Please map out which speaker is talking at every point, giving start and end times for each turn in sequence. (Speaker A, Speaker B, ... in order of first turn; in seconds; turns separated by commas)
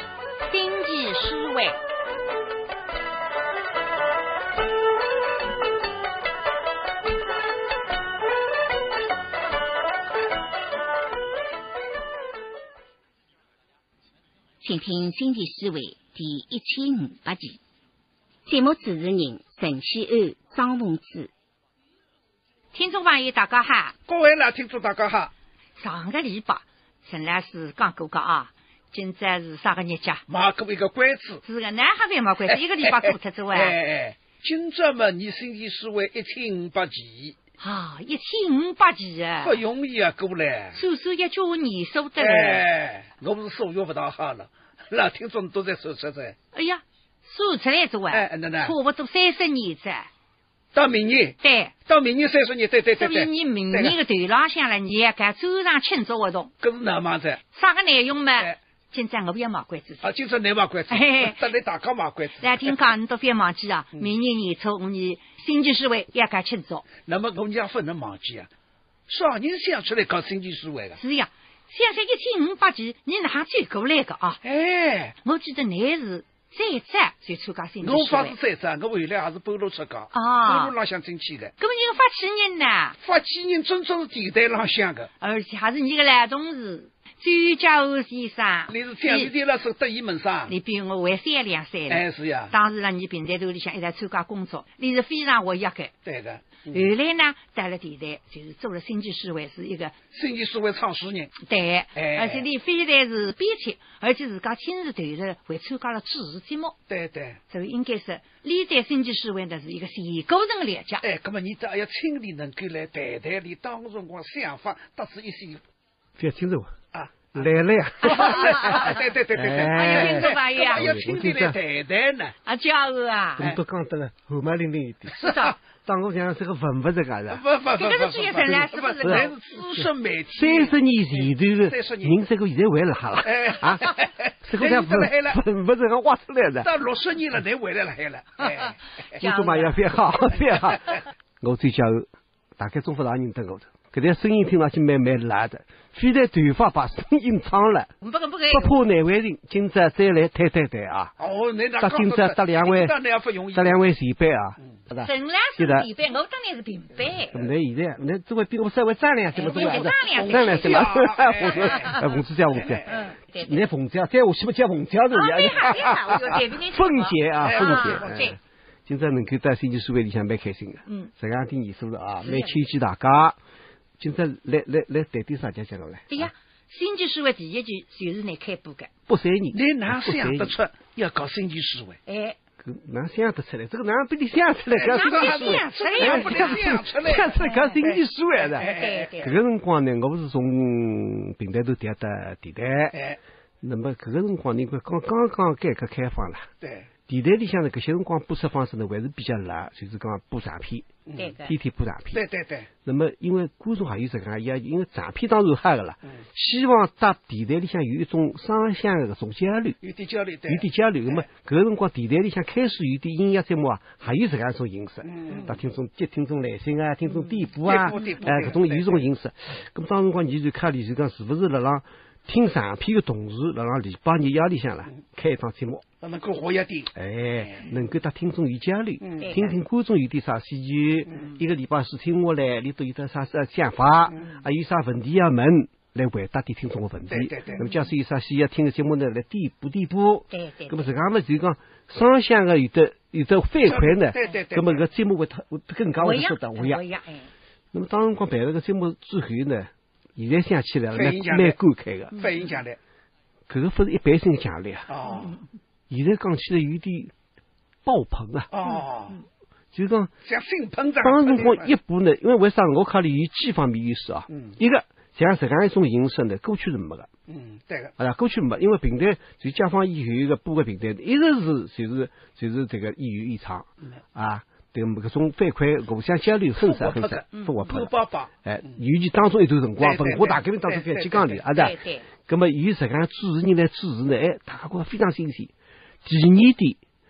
Speaker A: 0.5-1.8, Speaker B: 14.6-17.6, Speaker B: 18.4-21.3, Speaker A: 22.7-23.9, Speaker C: 24.1-25.3, Speaker A: 25.8-30.2, Speaker C: 30.3-31.4, Speaker A: 31.4-33.8, Speaker C: 33.5-37.4, Speaker A: 37.6-39.6, Speaker C: 39.4-40.8, Speaker A: 40.7-42.6, Speaker C: 42.2-46.4, Speaker A: 46.5-50.1, Speaker C: 48.1-48.7, Speaker C: 50.7-54.0, Speaker A: 51.4-51.7, Speaker A: 52.9-56.5, Speaker C: 56.6-57.4, Speaker A: 57.5-60.1, Speaker C: 60.0-62.7, Speaker A: 60.9-61.4, Speaker A: 62.4-66.8, Speaker C: 67.0-68.5, Speaker C: 69.1-71.0, Speaker A: 71.0-74.4, Speaker C: 74.4-75.2, Speaker A: 75.2-78.3, Speaker C: 77.8-81.5, Speaker A: 80.1-80.7, Speaker A: 81.6-83.0, Speaker C: 83.0-85.1, Speaker A: 85.2-89.3, Speaker C: 88.7-90.5, Speaker A: 90.5-95.9, Speaker C: 91.9-92.5, Speaker C: 96.0-96.8, Speaker A: 96.7-100.0, Speaker C: 100.1-101.3, Speaker A: 101.4-106.8, Speaker C: 101.9-102.4, Speaker C: 106.9-107.4, Speaker A: 107.5-111.0, Speaker C: 111.0-115.6, Speaker D: 116.2-116.7, Speaker C: 116.9-117.5, Speaker D: 117.3-121.6, Speaker C: 118.0-122.3, Speaker A: 118.2-118.9, Speaker A: 119.6-120.9, Speaker A: 122.5-123.5, Speaker D: 123.4-125.3, Speaker A: 125.2-125.5, Speaker D: 125.8-127.4, Speaker C: 127.3-132.1, Speaker A: 127.7-129.3, Speaker D: 129.8-133.9, Speaker C: 133.2-135.4, Speaker D: 134.4-136.7, Speaker C: 136.6-138.8, Speaker A: 139.2-139.8, Speaker D: 139.2-147.9, Speaker A: 148.0-148.7, Speaker D: 148.5-151.1, Speaker C: 151.2-153.8, Speaker D: 151.8-152.9, Speaker D: 153.5-155.9, Speaker A: 155.0-157.3, Speaker D: 157.3-162.8, Speaker A: 159.3-160.9, Speaker C: 159.5-162.0, Speaker A: 161.4-162.0, Speaker C: 162.6-162.9, Speaker A: 162.9-163.6, Speaker D: 163.4-168.3, Speaker A: 165.1-168.3, Speaker C: 167.4-168.2, Speaker D: 168.8-173.4, Speaker A: 172.2-172.6, Speaker D: 174.0-176.3, Speaker A: 176.1-178.9, Speaker D: 179.1-180.5, Speaker C: 179.5-182.0, Speaker A: 182.1-182.4, Speaker D: 182.6-192.9, Speaker C: 184.8-187.3, Speaker A: 184.8-186.7, Speaker A: 187.3-187.9, Speaker A: 188.5-189.3, Speaker C: 188.6-189.1, Speaker D: 193.6-196.5, Speaker C: 196.6-196.9, Speaker D: 197.1-202.2, Speaker C: 201.1-201.3, Speaker A: 201.2-201.5, Speaker C: 202.1-202.7, Speaker D: 202.8-209.8, Speaker C: 209.8-211.2, Speaker D: 210.5-225.8, Speaker C: 215.1-215.5, Speaker C: 217.6-219.0, Speaker C: 226.0-226.9, Speaker D: 226.9-246.8, Speaker C: 229.0-229.3, Speaker C: 237.1-237.6, Speaker A: 237.5-237.8, Speaker A: 240.3-240.9, Speaker C: 243.7-244.8, Speaker A: 246.0-247.3, Speaker D: 247.7-252.1, Speaker C: 250.9-251.6, Speaker C: 252.1-252.8, Speaker A: 252.1-252.4, Speaker D: 253.5-254.9, Speaker C: 254.9-255.3, Speaker A: 255.1-255.4, Speaker D: 255.9-257.1, Speaker D: 257.8-258.5, Speaker C: 258.5-259.2, Speaker D: 259.7-260.1, Speaker C: 260.2-261.7, Speaker D: 261.0-267.1, Speaker C: 264.3-264.6, Speaker C: 267.3-267.9, Speaker D: 268.0-285.5, Speaker C: 276.6-278.3, Speaker C: 279.8-281.3, Speaker A: 281.5-282.0, Speaker D: 286.0-286.8